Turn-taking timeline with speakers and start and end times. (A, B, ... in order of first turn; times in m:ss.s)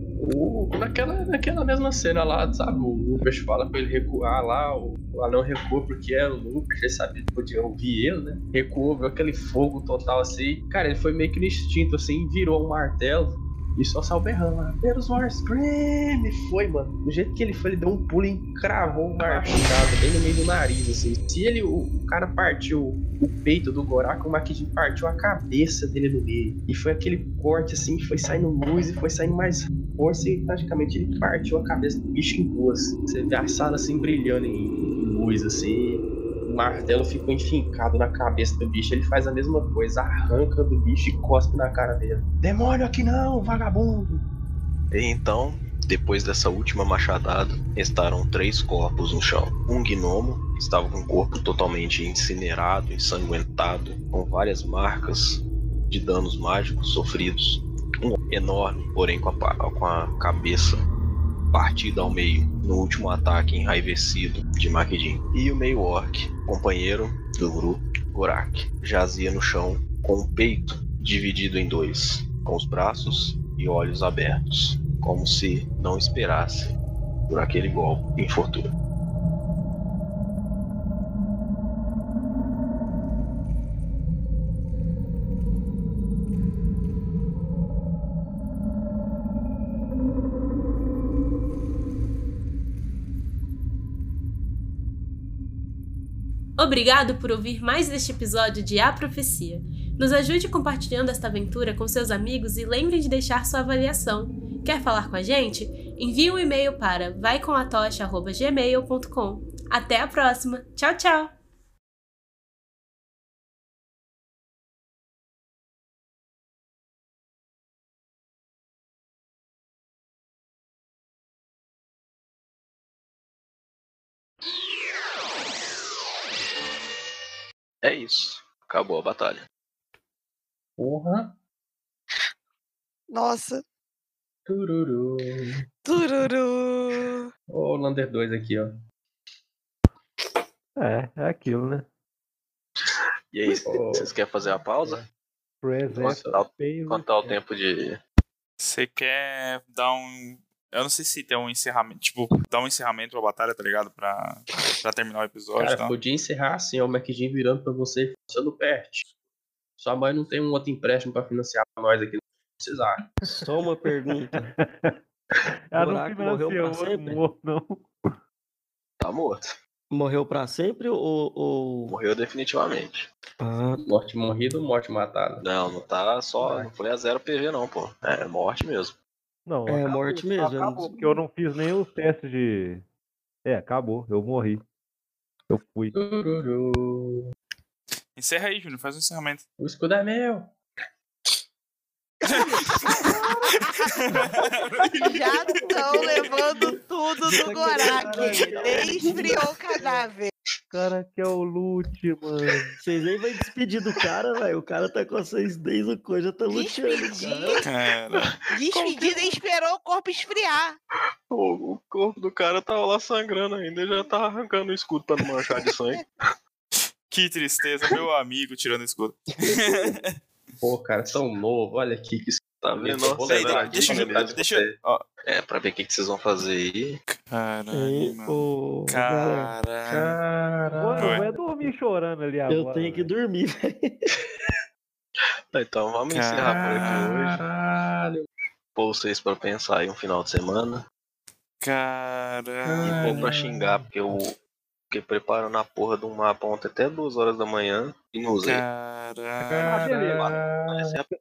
0:00.2-0:44.2 A
0:19.3-0:19.6 B
0:44.9-1:00.8 C
1:01.5-1:16.7 C
1:17.3-1:18.7 C
1:36.6-1:51.3 D
2:07.8-2:09.4 C
2:10.8-2:11.4 A
2:13.1-2:13.6 E
2:14.5-2:15.6 A
2:15.9-2:17.3 E
2:17.5-2:18.8 A
2:20.8-2:21.9 B
2:23.3-2:25.0 C
2:23.6-2:24.1 A
2:25.6-2:27.4 B
2:25.9-2:28.0 C
2:25.9-2:26.4 A
2:28.6-2:35.9 F
2:35.6-2:39.1 A
2:39.8-2:43.2 A
2:43.3-2:44.5 G
2:44.3-2:44.9 B
2:45.7-2:48.1 B
2:45.8-2:47.2 G
2:49.0-2:49.6 C
2:49.9-2:52.0 G
2:51.9-2:53.1 C
2:53.4-2:53.9 G
2:53.8-2:55.4 A
2:55.4-2:59.0 C
2:56.4-2:56.7 A
2:59.5-3:02.8 B
2:59.7-3:01.2 G
3:03.4-3:04.6 B
3:05.5-3:06.0 B
3:05.9-3:07.3 A
3:08.2-3:09.4 F
3:09.6-3:10.5 A
3:12.2-3:13.9 E
3:12.2-3:13.0 F
3:14.0-3:15.1 F
3:15.0-3:20.3 E
3:15.5-3:19.4 G
3:15.8-3:16.2 B
3:17.6-3:19.3 A
3:19.0-3:19.3 B
3:20.7-3:22.8 B
3:22.8-3:27.6 G
3:26.5-3:27.7 E
3:27.6-3:28.4 F
3:28.4-3:30.8 E
3:31.3-3:36.0 C
3:37.1-3:40.2 F
3:39.5-3:39.9 G
3:40.6-3:44.8 A
3:42.7-3:44.4 C
3:43.2-3:45.0 F
3:45.3-3:47.0 C
3:47.1-3:50.2 F
3:47.7-3:49.5 G
3:49.9-3:51.3 A
3:50.7-3:53.1 B
3:51.0-3:51.3 F
3:52.5-3:54.1 G
3:55.5-3:57.4 C
3:56.1-3:57.1 F
3:56.4-3:58.3 A
3:58.8-4:00.8 C
4:01.6-4:03.3 F
4:02.6-4:03.8 A
4:02.8-4:04.4 C
4:04.9-4:08.6 C
4:08.4-4:09.9 F
4:09.4-4:11.0 A
4:09.6-4:10.4 B
4:09.8-4:11.1 C